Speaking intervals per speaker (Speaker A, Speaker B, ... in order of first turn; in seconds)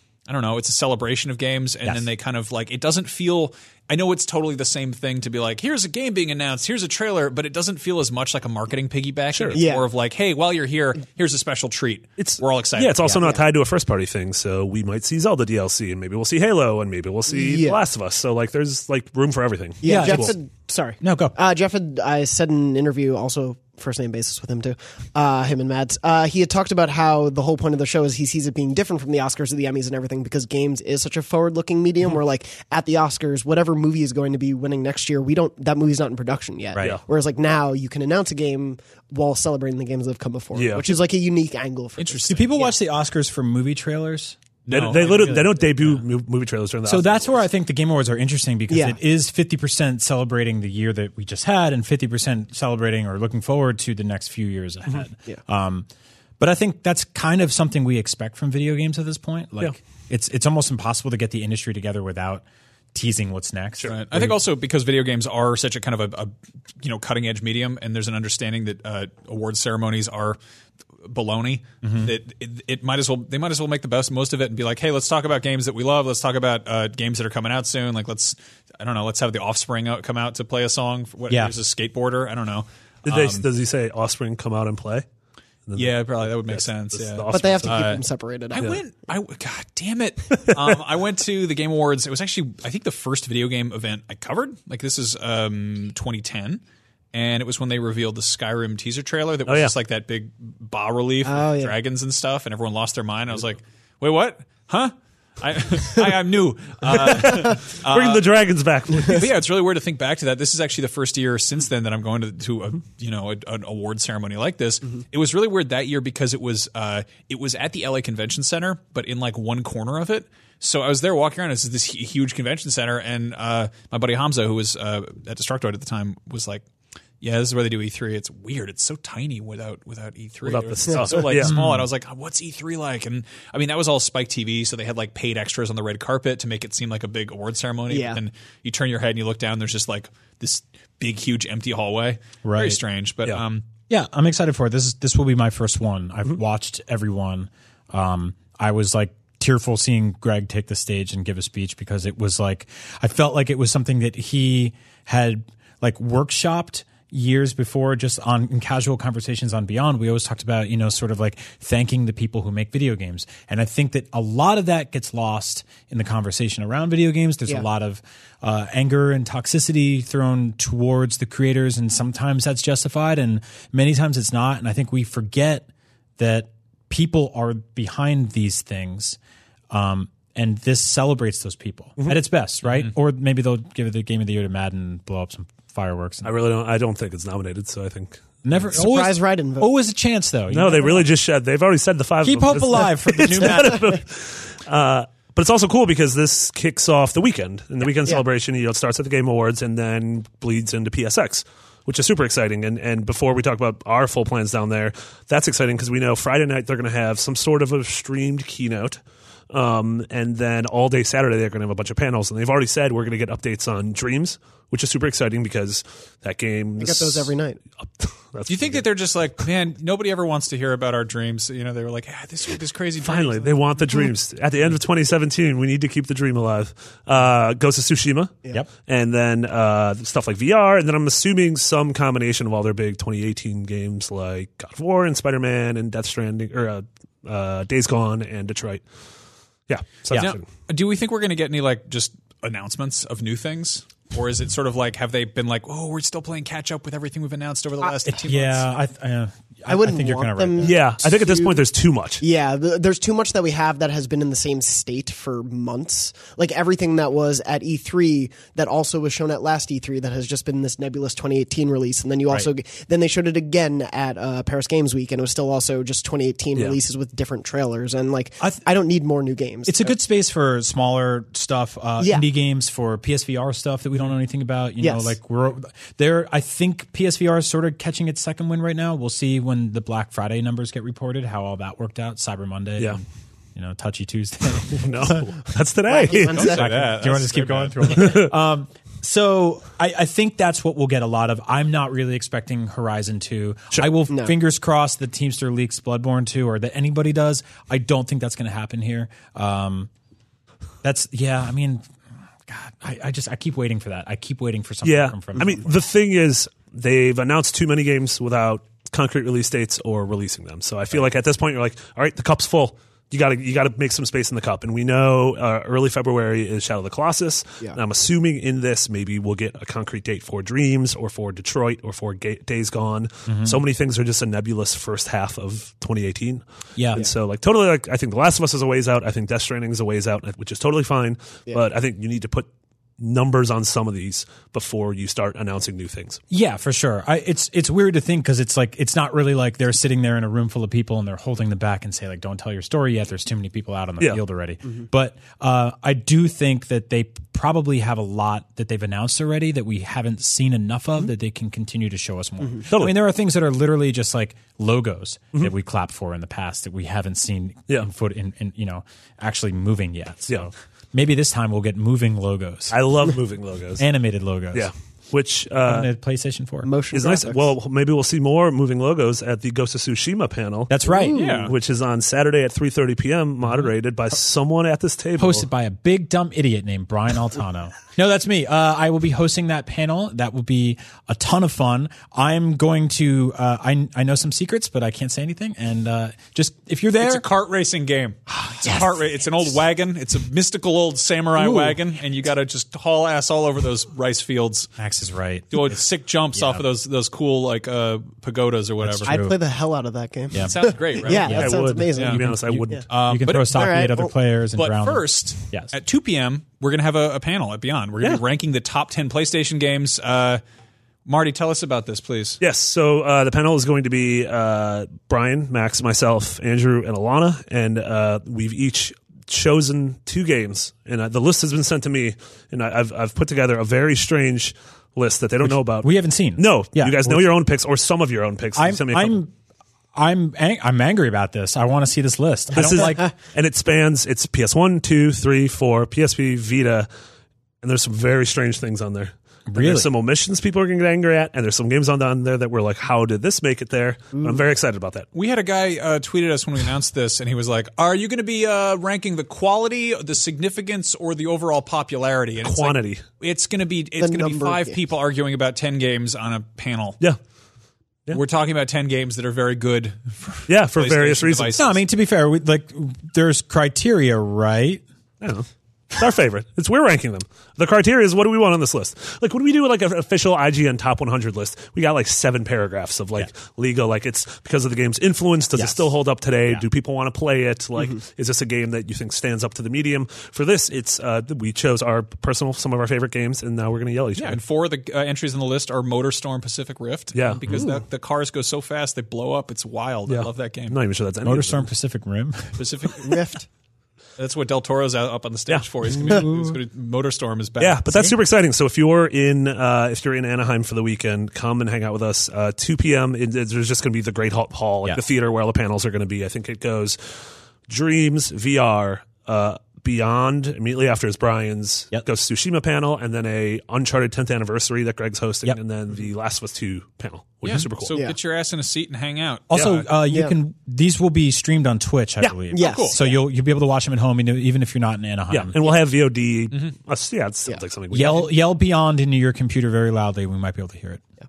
Speaker A: 0.3-13.1, 42.0-42.7, 44.6-45.3, 63.8-70.4, 71.0-83.5, 85.7-88.0, 88.5-96.6, 97.1-108.2, 109.0-126.6, 127.2-143.6, 218.5-223.6, 240.1-248.7, 286.1-288.1, 371.1-371.5, 387.0-394.7, 395.5-399.2, 400.4-402.2, 402.9-403.8, 404.5-410.4, 411.1-412.4, 445.1-457.0, 458.1-461.8, 484.2-490.8, 492.6-493.2, 494.2-498.2, 517.4-519.8, 522.5-523.0
Speaker B: 9.3-9.6, 12.2-20.3, 40.5-40.9, 44.7-47.4, 83.0-85.0, 85.7-85.9, 86.4-88.0, 90.5-90.8, 99.5-99.7, 106.9-109.3, 130.4-131.5, 186.2-188.2, 190.5-209.0, 209.5-218.8, 223.0-238.8, 239.7-240.4, 250.6-252.2, 284.7-286.7, 287.8-288.3, 304.8-332.5, 333.0-336.2, 352.7-352.9, 362.7-363.8, 364.5-365.9, 366.9-375.4, 401.3-402.8, 412.4-429.2, 432.5-436.9, 437.6-445.1, 452.4-453.0, 460.5-461.6, 465.2-484.4, 487.1-487.4, 490.1-491.6, 497.6-518.0, 525.3-528.3
Speaker C: 9.5-9.8, 13.2-13.4, 17.3-17.8, 19.8-42.7, 48.7-49.0, 87.3-88.7, 101.2-101.7, 130.9-131.1, 137.9-138.2, 188.7-189.7, 216.8-217.6, 249.7-251.6, 252.2-269.9, 272.0-272.2, 274.8-275.1, 285.9-286.9, 366.6-367.5, 370.9-371.3, 399.1-402.8, 403.4-404.1, 454.0-454.8, 493.0-493.4, 517.9-518.1, 520.1-520.3, 522.5-523.2
Speaker D: 19.8-20.4, 21.0-21.3, 42.3-46.0, 46.9-55.9, 56.4-64.3, 71.8-72.1, 131.4-131.9, 142.4-142.8, 143.9-175.7, 176.2-179.2, 179.7-186.3, 188.4-191.1, 192.2-194.0, 248.0-250.9, 269.7-283.0, 283.5-285.3, 286.5-299.9, 300.8-301.8, 302.5-305.8, 323.3-323.6, 326.8-327.1, 336.3-362.8, 363.8-364.7, 365.6-366.7, 370.7-371.4, 375.2-387.2, 388.3-388.9, 394.8-395.8, 396.3-396.6, 398.8-399.4, 401.2-401.6, 402.2-405.7, 425.4-427.3, 428.5-429.3, 429.9-433.1, 439.5-439.9, 461.6-464.8, 475.6-475.9, 491.2-493.1, 496.0-496.6, 519.5-525.6, 527.9-531.0